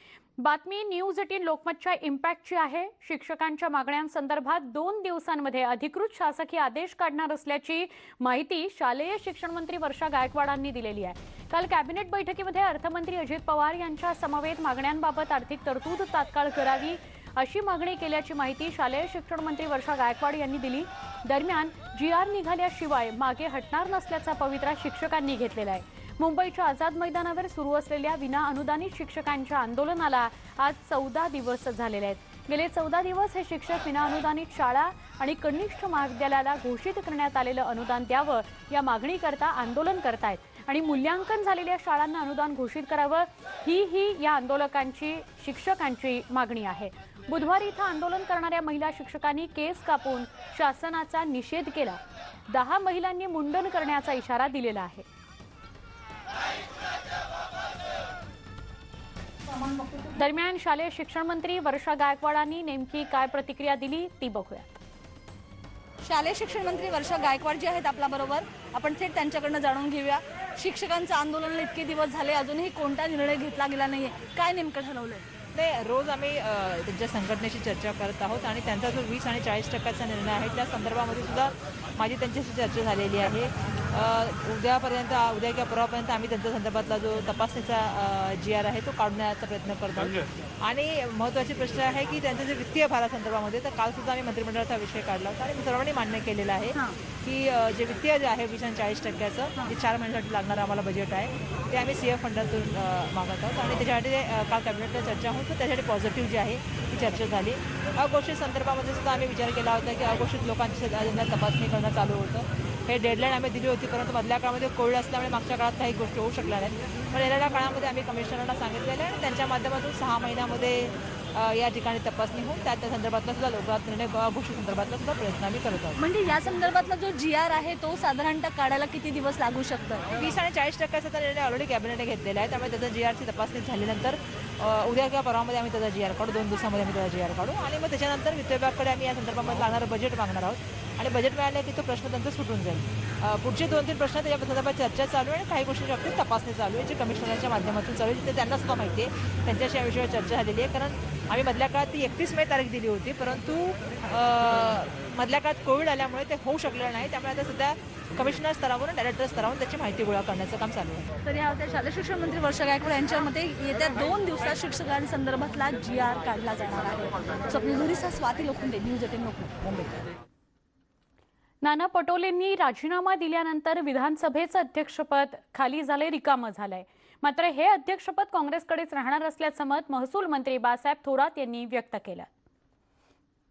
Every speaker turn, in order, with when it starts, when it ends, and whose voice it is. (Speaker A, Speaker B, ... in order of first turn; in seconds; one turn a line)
Speaker A: 0.4-55.0
Speaker B: 59.6-60.0
Speaker A: 60.2-64.8
Speaker B: 66.0-75.3
Speaker C: 75.5-126.0
Speaker B: 126.0-130.1
Speaker C: 130.2-161.1
Speaker B: 161.2-170.0
Speaker A: 171.6-182.3